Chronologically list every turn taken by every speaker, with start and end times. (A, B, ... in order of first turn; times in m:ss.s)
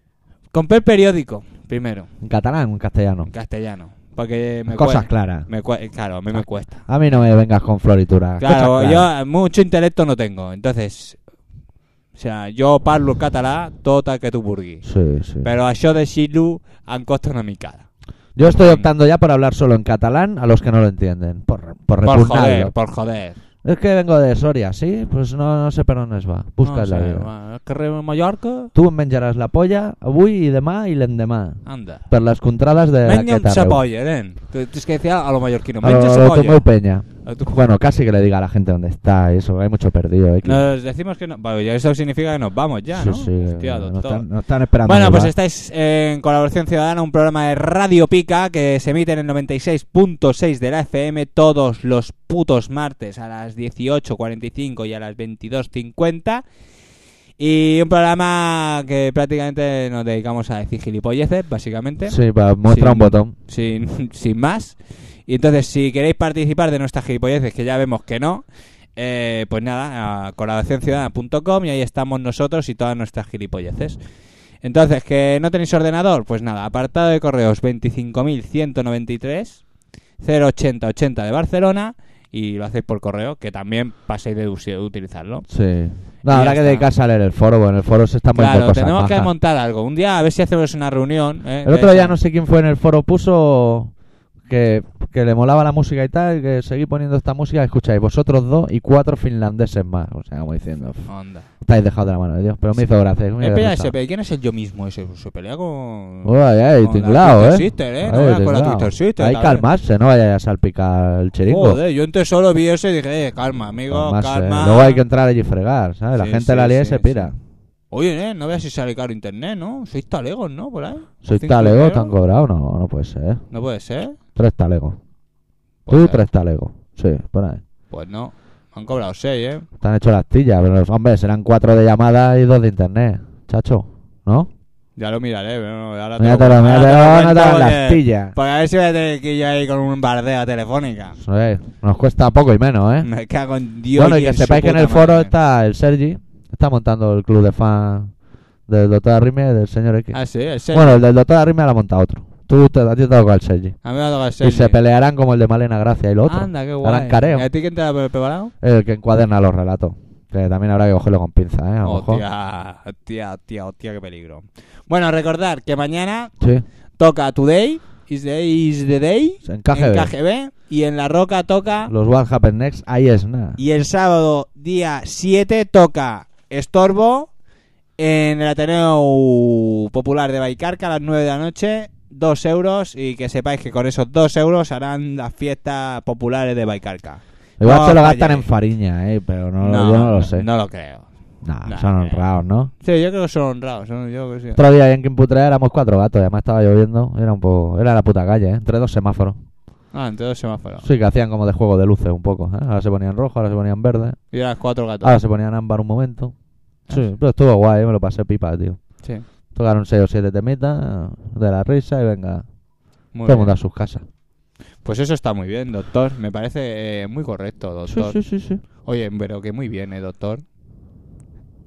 0:00.5-0:02.1 A
0:02.2-0:03.3 B
0:03.3-0:06.8 A
0:04.7-0:05.5 B
0:06.3-0:09.1 B
0:08.4-0:11.2 A
0:12.2-0:14.8 A
0:14.8-0:15.5 B
0:15.4-0:17.9 A
0:18.4-0:22.7 B
0:18.4-0:18.9 A
0:22.0-0:23.4 A
0:23.6-0:27.3 B
0:26.6-0:28.7 A
0:28.7-0:33.8 B
0:31.7-0:32.0 A
0:33.0-0:36.6 A
0:35.8-0:40.6 B
0:37.2-0:37.6 A
0:40.4-0:44.3 A
0:43.0-0:45.3 B
0:44.9-0:56.4 A
0:57.4-1:08.4 A
1:02.1-1:03.3 B
1:09.0-1:14.0 A
1:14.6-1:19.6 A
1:20.2-1:25.5 A
1:25.5-1:29.3 B
1:26.3-1:26.9 A
1:28.4-1:32.2 A
1:31.6-1:33.9 B
1:34.5-1:41.1 B
1:41.1-1:41.5 A
1:41.6-1:43.9 B
1:43.4-1:49.6 A
1:46.2-1:51.8 B
1:51.5-1:55.0 A
1:53.9-1:57.4 B
1:56.2-1:57.4 A
1:57.9-2:02.1 A
2:01.2-2:03.4 B
2:03.5-2:04.2 A
2:04.4-2:05.0 B
2:05.9-2:06.3 A
2:05.9-2:07.6 B
2:07.9-2:09.6 A
2:09.8-2:14.5 B
2:15.0-2:21.2 A
2:16.2-2:18.4 B
2:21.2-2:23.1 B
2:23.0-2:25.3 A
2:24.0-2:28.1 B
2:28.7-2:30.2 B
2:30.1-2:31.0 A
2:30.7-2:33.8 B
2:33.8-2:34.8 A
2:34.4-2:37.5 B
2:36.3-2:38.5 A
2:38.6-2:42.2 B
2:41.8-2:46.3 A
2:46.4-2:46.6 B
2:47.0-2:51.9 A
2:49.4-2:50.1 B
2:51.9-2:53.6 B
2:53.6-2:57.3 A
2:58.0-3:08.5 A
3:07.6-3:10.5 B
3:09.6-3:11.1 A
3:11.4-3:12.7 B
3:11.6-3:12.2 A
3:12.8-3:14.6 A
3:14.6-3:19.4 B
3:19.9-3:20.9 A
3:20.8-3:24.2 B
3:24.3-3:25.2 A
3:25.0-3:26.3 B
3:26.9-3:28.8 B
3:29.6-3:32.4 B
3:33.1-3:33.5 A
3:33.2-3:34.0 B
3:34.8-3:38.2 A
3:37.9-3:38.6 B
3:38.8-3:40.4 A